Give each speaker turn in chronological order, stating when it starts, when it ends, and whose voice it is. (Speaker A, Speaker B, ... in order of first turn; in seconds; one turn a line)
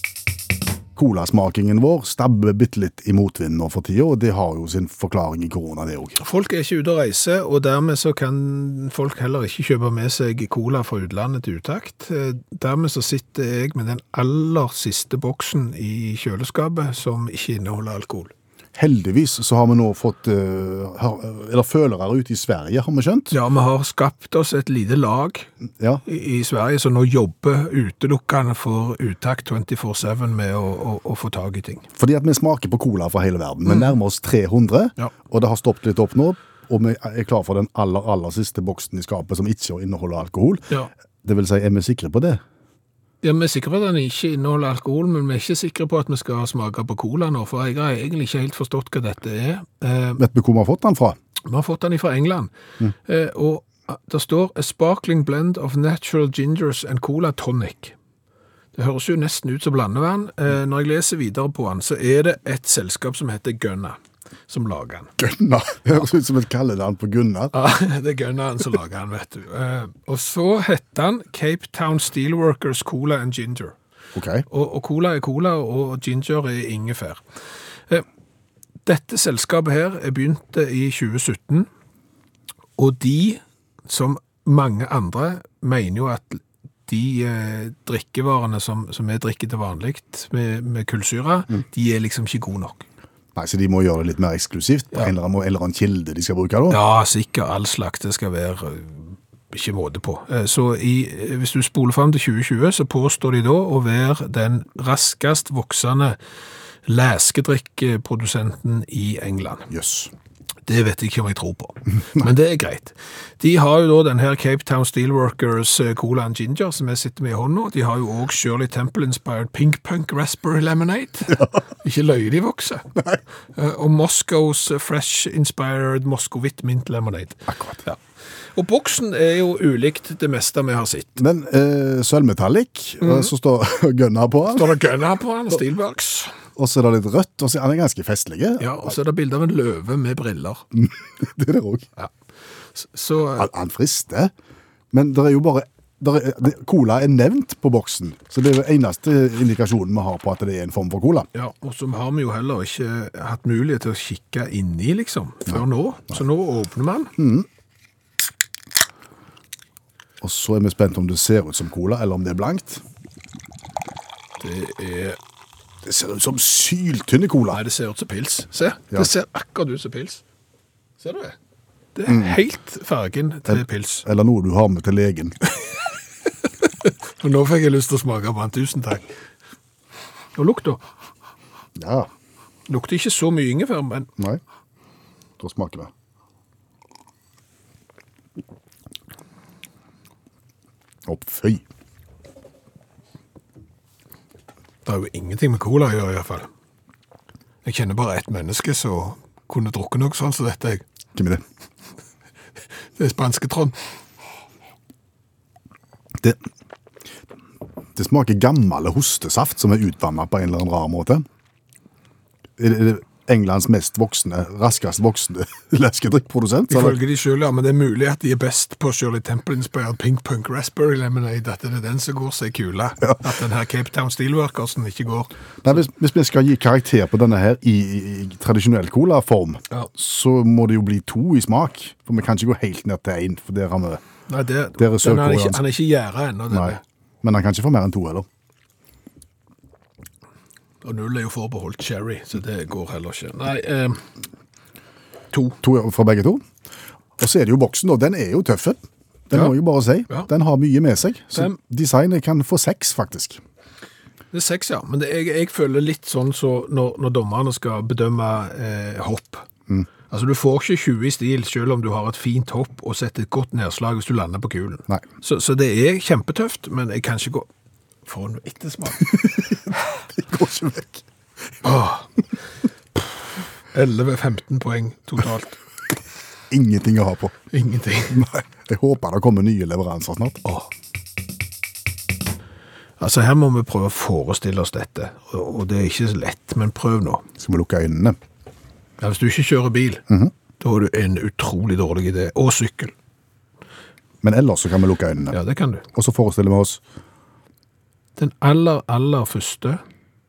Speaker A: 1.0-6.2
Speaker B: 6.2-18.3
Speaker A: 18.8-23.3
Speaker B: 23.3-25.5
Speaker B: 26.1-31.9
Speaker A: 32.0-40.7
Speaker A: 41.2-42.4
Speaker B: 43.2-50.2
Speaker A: 50.2-51.2
Speaker B: 51.5-52.5
Speaker B: 53.0-58.0
Speaker B: 58.8-65.1
Speaker A: 65.2-67.5
Speaker B: 67.5-73.8
Speaker A: 74.2-74.5
Speaker B: 74.5-77.2
Speaker B: 78.8-81.7
Speaker B: 82.8-92.8
Speaker A: 93.3-96.8
Speaker B: 96.7-106.2
Speaker B: 106.9-109.7
Speaker A: 109.7-110.1
Speaker B: 110.7-122.9
Speaker B: 123.5-128.0
Speaker A: 127.5-127.8
Speaker B: 128.6-131.2
Speaker A: 131.2-134.8
Speaker B: 133.0-133.3
Speaker B: 134.5-136.4
Speaker A: 136.6-138.9
Speaker B: 138.6-140.7
Speaker A: 140.7-141.9
Speaker B: 142.8-143.5
Speaker A: 143.4-144.3
Speaker A: 144.9-151.3
Speaker B: 151.3-157.2
Speaker A: 157.2-157.5
Speaker A: 160.2-162.8
Speaker B: 164.4-165.2
Speaker A: 165.8-167.6
Speaker B: 167.5-170.2
Speaker B: 171.0-171.4
Speaker B: 171.9-174.1
Speaker A: 172.1-172.4
Speaker A: 173.5-175.4
Speaker B: 176.7-179.1
Speaker B: 180.3-180.8
Speaker A: 181.8-182.1
Speaker B: 182.7-184.1
Speaker A: 185.4-185.9
Speaker A: 191.1-191.6
Speaker B: 194.8-196.5
Speaker B: 197.6-200.8
Speaker A: 201.2-201.4
Speaker B: 203.0-203.8
Speaker A: 208.0-211.2
Speaker A: 212.6-217.0
Speaker B: 216.7-225.3
Speaker A: 225.6-234.0
Speaker B: 234.3-236.8
Speaker A: 234.8-235.6
Speaker A: 236.5-238.3
Speaker B: 240.8-244.1
Speaker B: 245.3-245.6
Speaker A: 245.6-246.4
Speaker A: 247.2-253.4
Speaker B: 254.3-259.5
Speaker B: 260.1-267.5
Speaker B: 268.1-269.4
Speaker A: 269.1-271.0
Speaker B: 271.6-272.1
Speaker B: 273.7-275.6
Speaker A: 276.5-277.4
Speaker B: 277.5-278.3
Speaker A: 278.1-280.4
Speaker B: 283.0-287.2
Speaker A: 287.4-288.2
Speaker B: 289.0-290.0
Speaker B: 290.6-292.9
Speaker A: 294.2-295.4
Speaker B: 295.3-295.8
Speaker A: 295.9-296.8
Speaker B: 298.2-299.8